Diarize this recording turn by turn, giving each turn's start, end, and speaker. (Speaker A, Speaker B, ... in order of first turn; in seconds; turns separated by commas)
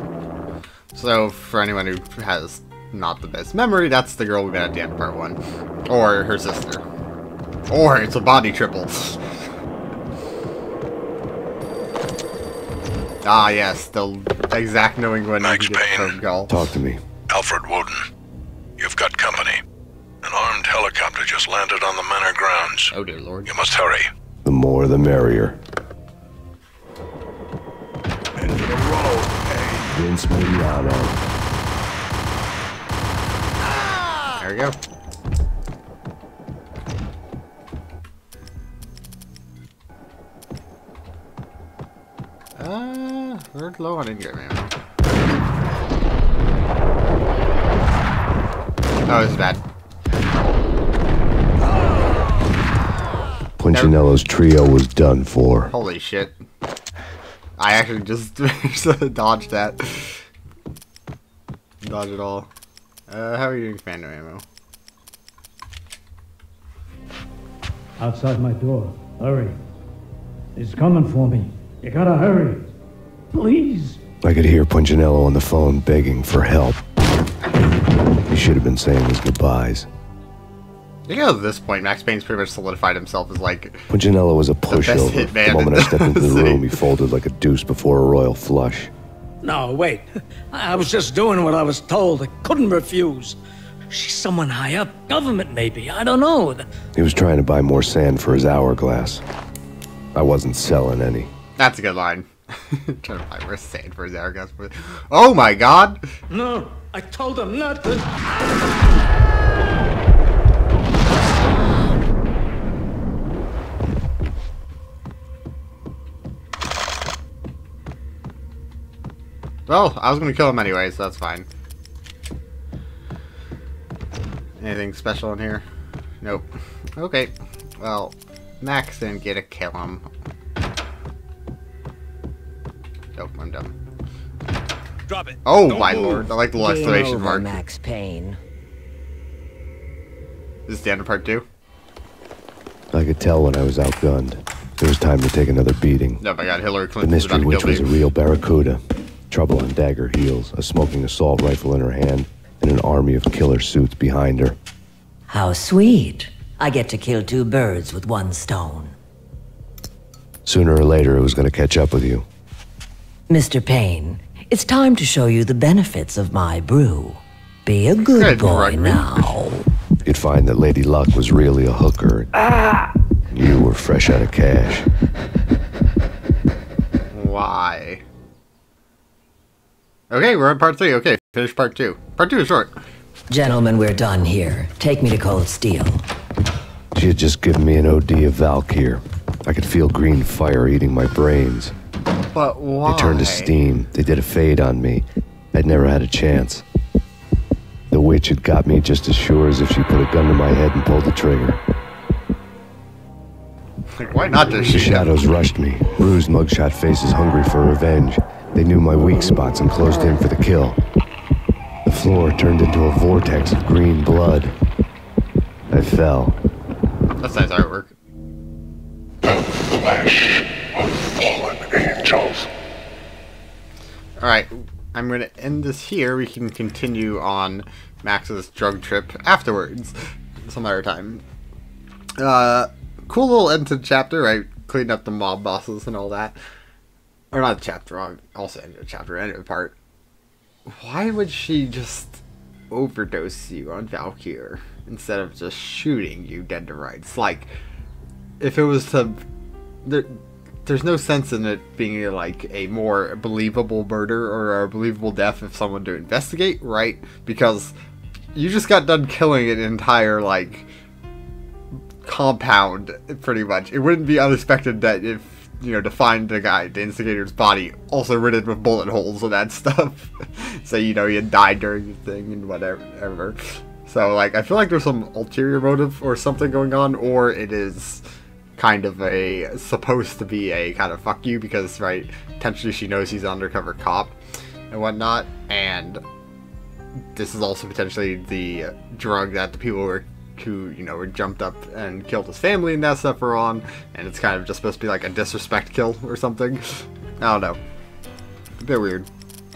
Speaker A: 0.9-6.8, Speaker A: 7.7-9.2, Speaker A: 13.2-16.6, Speaker B: 15.4-16.2, Speaker C: 16.5-17.0, Speaker B: 17.3-18.0, Speaker B: 18.8-19.6, Speaker B: 20.2-22.9, Speaker A: 22.9-23.5, Speaker B: 23.5-24.1, Speaker C: 24.4-25.6, Speaker C: 29.7-31.3, Speaker A: 34.4-34.8, Speaker A: 42.6-44.7, Speaker A: 49.1-49.6, Speaker C: 53.6-55.7, Speaker A: 53.7-54.0, Speaker A: 55.7-56.4, Speaker A: 57.6-60.2, Speaker A: 61.8-62.5, Speaker A: 63.1-64.4, Speaker D: 68.0-69.6, Speaker D: 70.6-72.7, Speaker D: 73.3-74.0, Speaker C: 74.2-76.8, Speaker C: 78.3-79.9, Speaker A: 81.1-83.8, Speaker C: 83.9-88.9, Speaker A: 84.7-86.8, Speaker D: 89.4-93.4, Speaker D: 93.9-96.7, Speaker C: 97.0-99.2, Speaker C: 100.1-101.3, Speaker A: 101.6-106.1, Speaker D: 106.3-108.2, Speaker A: 119.7-121.5, Speaker A: 124.6-125.7, Speaker A: 126.2-130.1, Speaker A: 133.2-133.8, Speaker D: 135.1-136.3, Speaker A: 135.4-137.6, Speaker E: 136.6-138.4, Speaker A: 140.7-141.5, Speaker C: 142.9-146.2, Speaker A: 146.2-147.9, Speaker C: 147.0-154.6, Speaker E: 155.3-158.9, Speaker C: 160.5-162.3, Speaker E: 163.3-169.7, Speaker A: 168.1-169.3, Speaker C: 170.0-172.3, Speaker C: 173.3-174.9, Speaker A: 177.1-178.0, Speaker A: 180.1-182.7, Speaker E: 183.3-186.0, Speaker C: 186.9-191.7, Speaker A: 192.3-193.5, Speaker C: 192.9-196.7, Speaker C: 197.9-201.6, Speaker A: 203.9-205.1, Speaker C: 204.5-210.8, Speaker C: 211.8-214.6, Speaker C: 215.7-216.4, Speaker A: 217.2-217.9, Speaker B: 219.2-222.5, Speaker A: 224.2-231.2, Speaker A: 232.2-236.4, Speaker A: 237.3-239.8, Speaker A: 240.7-247.5, Speaker A: 248.4-249.2, Speaker A: 249.8-257.7, Speaker A: 258.4-260.7, Speaker A: 262.0-278.0, Speaker A: 278.6-284.2, Speaker A: 284.7-286.0, Speaker A: 287.1-297.6, Speaker A: 298.6-299.1